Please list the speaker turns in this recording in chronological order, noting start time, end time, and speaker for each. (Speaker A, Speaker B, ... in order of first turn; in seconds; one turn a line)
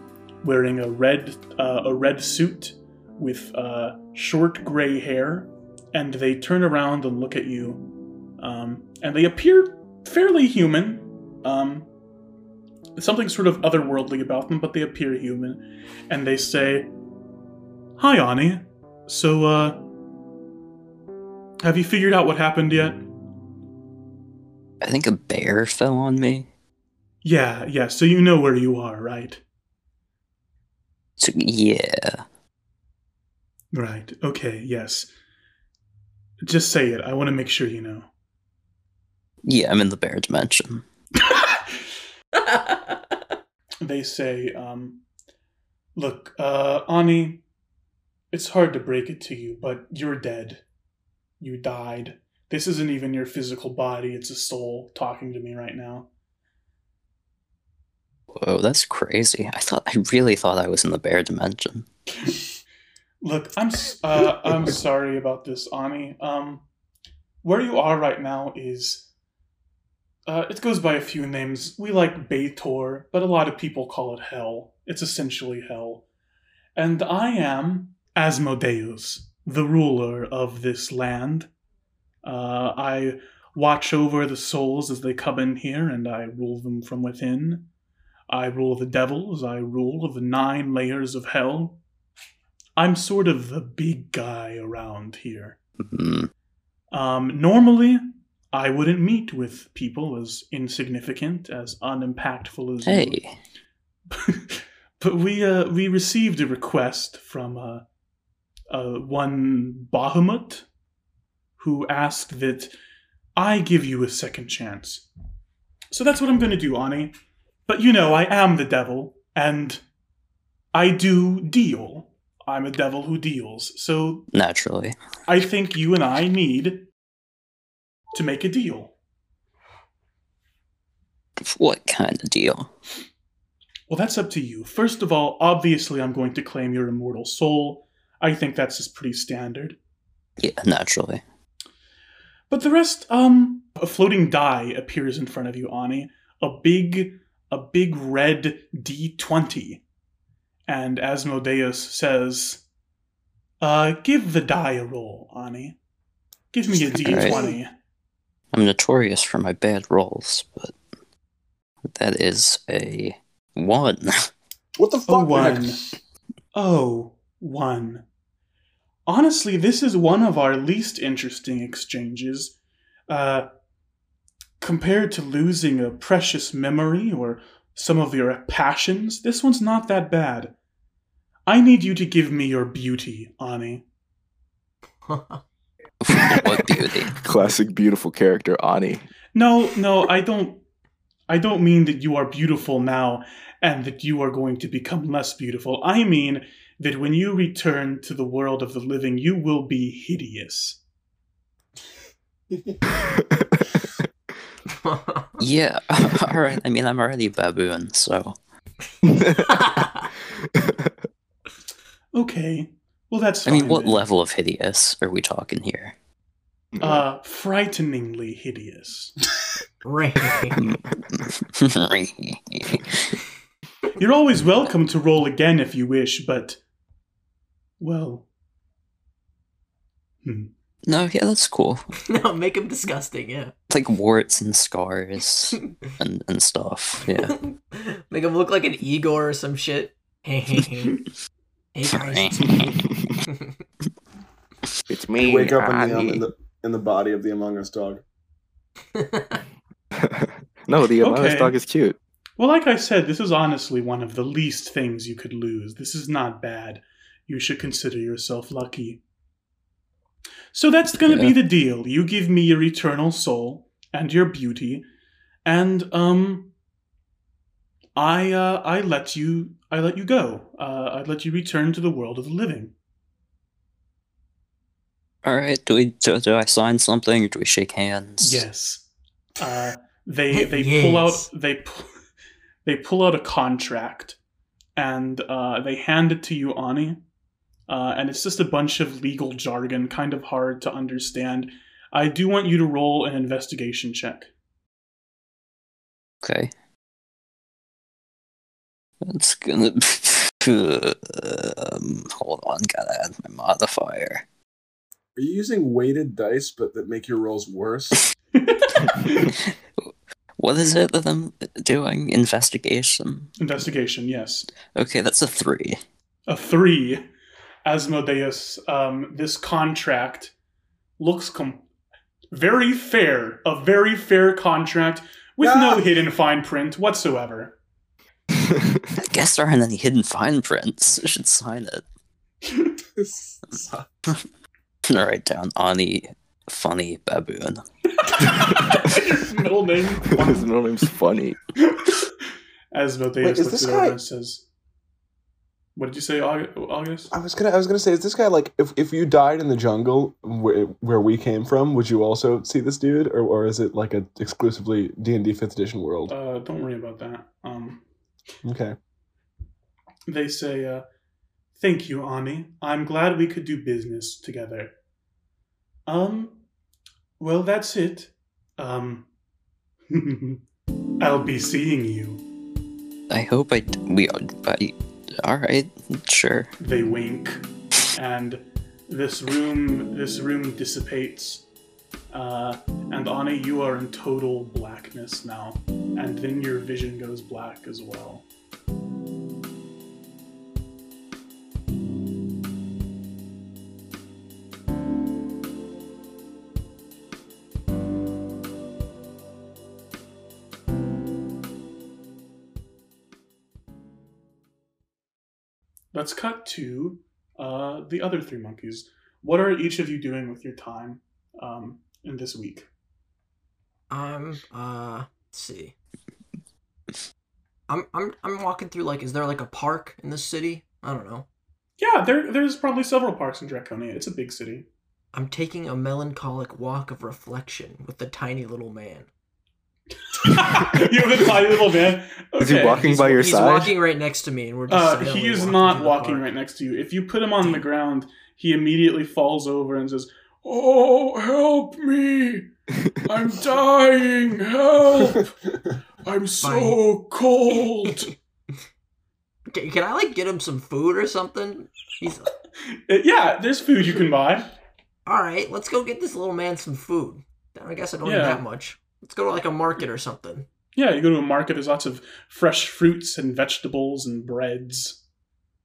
Speaker A: 0.4-7.8
Speaker A: 8.4-11.9
Speaker A: 12.9-16.9
Speaker A: 18.0-19.8
Speaker A: 21.6-23.0
Speaker B: 24.8-26.5
Speaker A: 27.2-29.4
Speaker B: 31.2-32.2
Speaker A: 33.7-35.1
Speaker A: 36.4-38.1
Speaker B: 39.4-40.8
Speaker A: 43.8-45.0
Speaker A: 46.0-47.4
Speaker A: 48.3-50.6
Speaker A: 51.4-56.1
Speaker B: 58.3-61.9
Speaker A: 63.2-66.6
Speaker A: 67.4-69.1
Speaker A: 70.3-76.0
Speaker A: 76.8-81.5
Speaker A: 82.2-87.7
Speaker A: 88.3-91.8
Speaker A: 92.8-95.6
Speaker B: 95.8-96.3
Speaker A: 96.9-103.2
Speaker B: 102.8-103.3
Speaker A: 104.1-107.8
Speaker A: 108.7-110.7
Speaker A: 111.6-112.7
Speaker A: 113.3-115.1
Speaker A: 115.9-117.1
Speaker A: 117.7-119.8
Speaker A: 120.7-124.3
Speaker B: 124.3-124.9
Speaker A: 125.3-126.9
Speaker A: 128.1-128.9
Speaker B: 131.4-132.7
Speaker A: 133.9-139.8
Speaker B: 140.4-141.2
Speaker A: 142.5-149.8
Speaker A: 150.7-152.6
Speaker A: 153.6-155.8
Speaker A: 156.5-157.7
Speaker B: 156.8-157.5
Speaker B: 158.5-160.7
Speaker B: 161.8-164.3
Speaker C: 164.8-165.8
Speaker A: 165.1-165.8
Speaker A: 166.5-168.1
Speaker A: 169.1-172.6
Speaker A: 173.1-173.5
Speaker A: 174.6-180.5
Speaker A: 181.5-183.8
Speaker D: 185.1-185.4
Speaker B: 186.0-187.2
Speaker E: 186.1-189.0
Speaker A: 189.3-190.6
Speaker A: 191.3-200.8
Speaker C: 202.5-202.8
Speaker E: 203.2-203.7
Speaker D: 204.8-205.3
Speaker B: 205.4-208.4
Speaker E: 209.0-210.9
Speaker D: 209.5-209.8
Speaker A: 212.1-214.0
Speaker B: 213.4-215.9
Speaker E: 216.7-217.0
Speaker A: 216.8-219.2
Speaker D: 219.8-220.6
Speaker B: 221.5-223.0
Speaker A: 224.0-226.6
Speaker A: 227.8-228.3
Speaker A: 230.2-230.5
Speaker B: 230.8-231.8
Speaker D: 232.0-233.5
Speaker B: 233.7-237.3
Speaker D: 237.1-241.0
Speaker D: 241.7-243.6
Speaker B: 241.9-242.7
Speaker E: 244.9-246.2
Speaker C: 245.2-248.0
Speaker D: 248.9-249.4
Speaker E: 249.9-252.0
Speaker A: 251.0-251.6
Speaker A: 252.4-259.0
Speaker A: 260.5-264.9
Speaker B: 261.0-261.4
Speaker A: 265.4-266.5
Speaker A: 267.9-272.7
Speaker B: 275.2-278.4
Speaker A: 278.2-281.9
Speaker D: 280.3-281.3
Speaker A: 282.6-284.2
Speaker A: 284.8-287.0
Speaker A: 287.7-294.3
Speaker B: 296.2-296.5
Speaker B: 299.0-304.2
Speaker C: 305.1-308.0
Speaker A: 308.3-309.3
Speaker B: 310.4-313.3
Speaker A: 313.4-314.5
Speaker B: 314.7-315.8
Speaker A: 316.3-317.0
Speaker A: 317.6-320.3
Speaker A: 321.0-321.6
Speaker A: 322.3-327.6
Speaker C: 325.4-325.9
Speaker B: 328.9-331.8
Speaker C: 333.0-333.9
Speaker B: 334.9-337.6
Speaker A: 338.0-340.5
Speaker E: 340.1-341.4
Speaker A: 341.6-342.0
Speaker A: 342.7-344.4
Speaker C: 343.2-344.0
Speaker A: 345.8-347.1
Speaker C: 347.1-356.1
Speaker A: 356.1-357.8
Speaker C: 358.4-358.8
Speaker A: 360.1-360.8
Speaker A: 361.6-364.7
Speaker A: 365.9-366.4
Speaker A: 367.2-369.1
Speaker A: 369.9-370.4
Speaker A: 371.0-372.2
Speaker B: 373.1-376.5
Speaker A: 376.6-381.4
Speaker A: 382.1-388.2
Speaker A: 405.9-412.7
Speaker D: 413.9-415.7
Speaker D: 417.7-421.2
Speaker A: 421.8-424.7
Speaker D: 425.1-429.1
Speaker A: 430.1-432.9
Speaker E: 432.4-433.8
Speaker D: 432.6-436.2
Speaker A: 434.7-442.5
Speaker A: 443.0-445.3
Speaker A: 446.0-448.1
Speaker D: 446.4-446.8
Speaker D: 449.5-452.3
Speaker A: 452.7-454.5
Speaker D: 455.1-460.4
Speaker A: 458.0-458.4
Speaker A: 460.8-465.0